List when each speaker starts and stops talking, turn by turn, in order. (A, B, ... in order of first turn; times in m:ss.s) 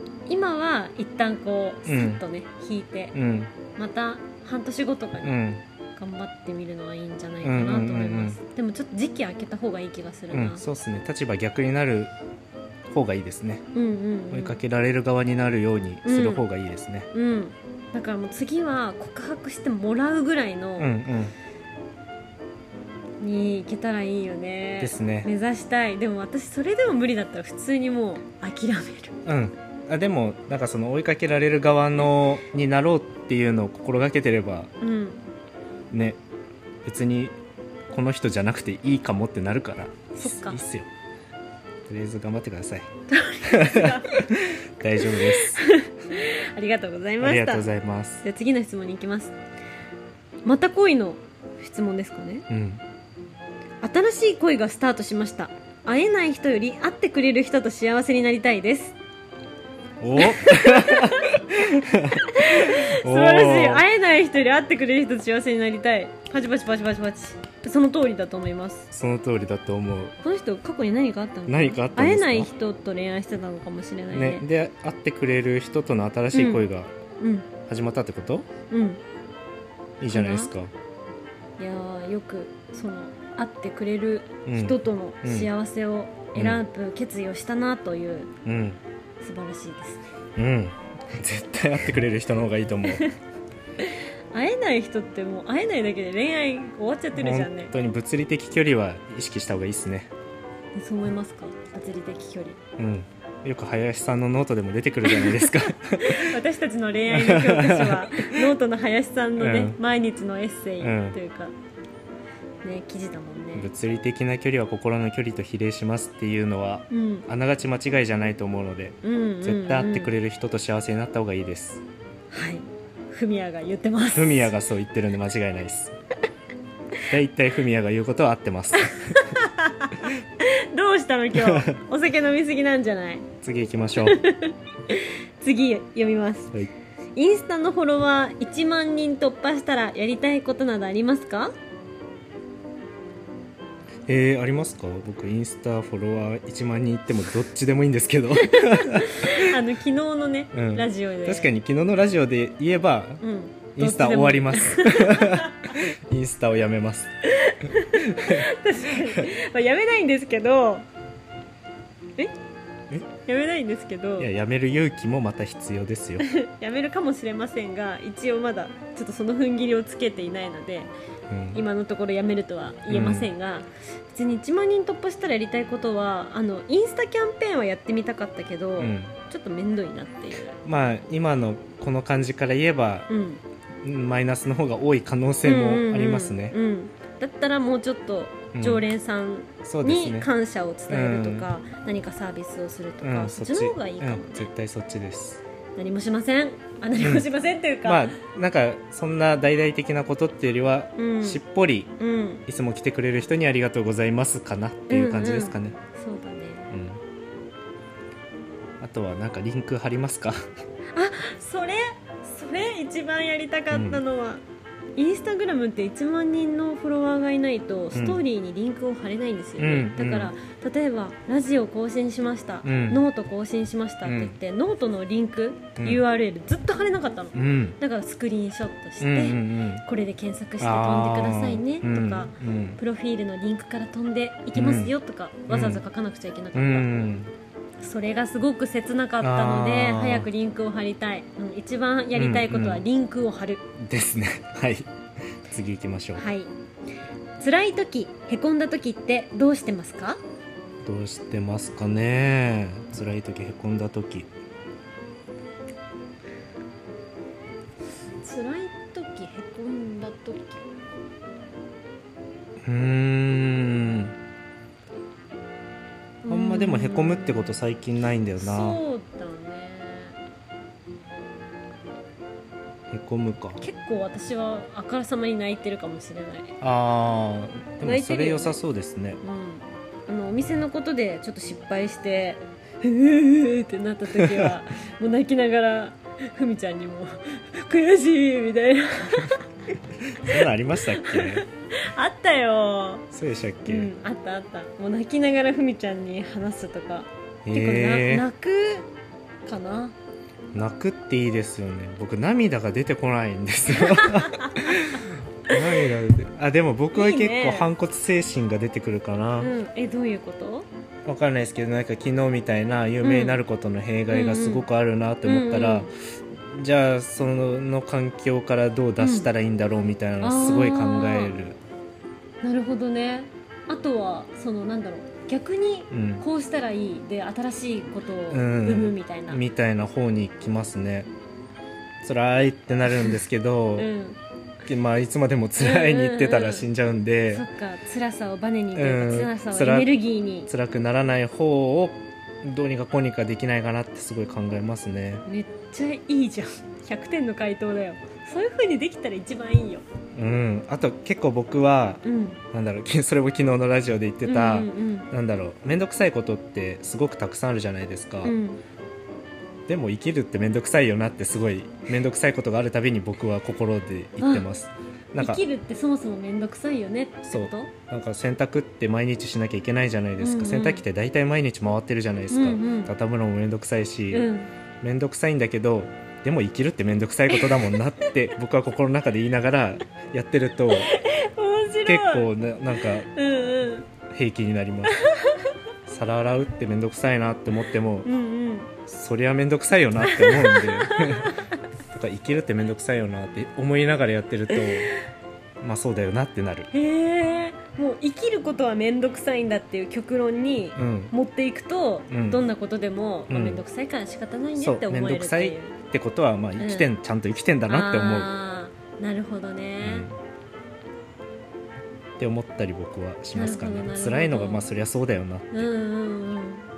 0:00.3-0:03.2 A
0:01.8-0:02.2 B
0:03.1-0:03.5 B
0:03.7-0:05.3 A
0:05.2-0:05.6 B
0:06.0-0:10.6 A
0:07.4-0:08.4 B
0:10.3-0:12.1 B
0:12.9-0:13.6 B
0:13.7-0:14.6 A
0:14.3-0:17.1 B
0:16.0-0:16.4 A
0:17.1-0:20.9 A
0:20.8-0:21.3 B
0:23.2-0:29.1 A
0:24.8-0:25.3 B
0:29.2-0:34.7 B
0:34.8-0:35.2 A
0:35.9-0:36.2 B
0:36.8-0:37.4 B
0:37.9-0:40.9 B
0:40.2-0:40.6 A
0:41.9-0:42.9 B
0:43.1-0:44.3 A
0:43.5-0:45.6 B
0:45.0-0:47.7 A
0:47.2-0:48.2 B
0:48.2-0:49.4 A
0:50.4-0:52.4 A
0:52.5-0:52.8 B
0:53.8-0:58.9 A
1:00.0-1:03.8 B
1:00.2-1:01.3 A
1:02.1-1:08.9 A
1:08.9-1:10.1 B
1:10.2-1:14.4 A
1:11.5-1:12.5 B
1:14.1-1:16.9 B
1:16.3-1:16.7 A
1:17.2-1:17.5 A
1:17.7-1:18.5 B
1:18.7-1:19.0 A
1:20.0-1:20.7 B
1:20.0-1:20.5 A
1:21.6-1:28.3 A
1:24.4-1:25.5 B
1:26.3-1:26.6 B
1:28.4-1:28.8 B
1:29.2-1:30.0 A
1:30.4-1:33.0 B
1:32.8-1:33.1 A
1:33.8-1:37.7 A
1:37.2-1:40.1 B
1:40.7-1:42.6 A
1:42.8-1:46.3 B
1:45.1-1:51.5 A
1:47.1-1:48.4 B
1:49.4-1:49.8 B
1:50.8-1:51.2 B
1:52.6-1:53.7 A
1:53.6-2:01.8 B
1:56.9-1:57.2 A
1:59.0-2:00.1 A
2:02.3-2:04.5 A
2:04.1-2:05.9 B
2:07.1-2:09.2 B
2:08.8-2:13.2 A
2:11.4-2:11.8 B
2:13.4-2:14.2 B
2:14.0-2:16.5 A
2:17.1-2:21.5 A
2:24.1-2:29.6 B
2:28.4-2:31.5 A
2:30.5-2:33.2 B
2:33.2-2:35.7 A
2:33.8-2:37.1 B
2:37.3-2:40.9 A
2:37.9-2:38.4 B
2:43.2-2:44.3 A
2:44.2-2:46.2 B
2:46.2-2:50.9 A
2:51.3-2:51.6 B
2:51.5-3:00.5 A
2:52.9-2:53.3 B
2:58.8-2:59.2 B
3:00.6-3:03.1 B
3:03.1-3:03.4 A
3:03.8-3:06.6 B
3:05.4-3:14.5 A
3:08.6-3:08.8 B
3:09.6-3:10.3 B
3:10.9-3:11.5 B
3:13.0-3:15.4 B
3:15.8-3:18.2 A
3:17.0-3:17.2 B
3:17.8-3:21.9 B
3:21.0-3:21.4 A
3:22.0-3:22.4 A
3:22.5-3:25.8 B
3:24.9-3:26.7 A
3:26.7-3:27.0 B
3:28.8-3:30.4 B
3:30.9-3:34.4 A
3:33.7-3:34.0 B
3:35.0-3:56.9 A
3:37.9-3:38.2 B
3:39.6-3:40.3 B
3:42.6-3:43.0 B
3:44.0-3:44.3 B
3:45.8-3:46.0 B
3:47.3-3:47.8 B
3:49.0-3:49.8 B
3:50.6-3:52.8 B
3:54.5-3:54.9 B
3:55.5-3:55.8 B
3:56.5-3:57.3 B
3:57.8-4:03.6 A
3:59.2-4:00.3 B
4:02.1-4:02.8 B
4:03.8-4:04.9 B
4:05.5-4:06.2 B
4:06.2-4:06.5 A
4:07.4-4:10.2 A
4:10.8-4:14.3 B
4:18.2-4:20.6 A
4:22.6-4:24.1 B
4:26.2-4:27.6 A
4:26.3-4:28.8 B
4:28.4-4:30.2 A
4:32.9-4:33.6 B
4:33.6-4:36.5 A
4:36.6-4:39.2 B
4:37.8-4:38.6 A
4:39.2-4:49.4 A
4:44.2-4:44.5 B
4:50.1-4:51.4 B
4:50.9-4:53.0 A
4:53.1-4:53.9 B
4:53.6-4:58.9 A
4:57.4-4:58.2 B
4:59.4-4:59.9 A
5:00.5-5:09.5 B
5:03.8-5:04.7 A
5:05.5-5:05.8 A
5:06.9-5:07.7 A
5:09.4-5:10.7 A
5:11.0-5:21.6 B
5:13.0-5:13.4 A
5:14.1-5:14.7 A
5:15.2-5:15.9 A
5:19.0-5:19.3 A
5:20.2-5:21.4 A
5:22.4-5:29.4 A
5:25.9-5:26.2 B
5:28.3-5:31.1 B
5:32.0-5:33.9 B
5:33.8-5:34.2 A
5:34.6-5:37.4 B
5:35.6-5:36.6 A
5:37.3-5:40.5 A
5:38.7-5:39.9 B
5:40.5-5:45.2 B
5:45.2-5:49.8 A
5:50.2-5:52.0 B
5:52.0-5:52.4 A
5:52.5-5:58.3 B
5:54.2-5:55.1 A
5:58.2-5:58.6 A
5:59.7-6:05.4 B
6:04.2-6:04.5 A
6:05.2-6:07.7 A
6:07.3-6:14.3 B
6:10.2-6:10.8 A
6:12.3-6:12.9 A
6:14.1-6:14.5 A
6:14.8-6:20.9 B
6:17.3-6:17.8 A
6:20.7-6:22.3 A
6:21.8-6:23.1 B
6:23.0-6:23.9 A
6:24.1-6:25.0 B
6:25.0-6:25.5 A
6:25.9-6:28.1 B
6:28.0-6:28.7 A
6:28.9-6:31.4 B
6:30.0-6:31.6 A
6:31.9-6:34.9 B
6:35.6-6:36.7 B
6:36.7-6:45.8 A
6:40.8-6:41.1 B
6:42.1-6:42.4 B
6:43.3-6:43.6 B
6:44.6-6:48.3 B
6:46.6-6:46.9 A
6:47.7-6:50.1 A
6:49.8-6:50.2 B
6:52.2-6:55.7 B
6:53.3-6:54.6 A
6:55.5-6:56.7 A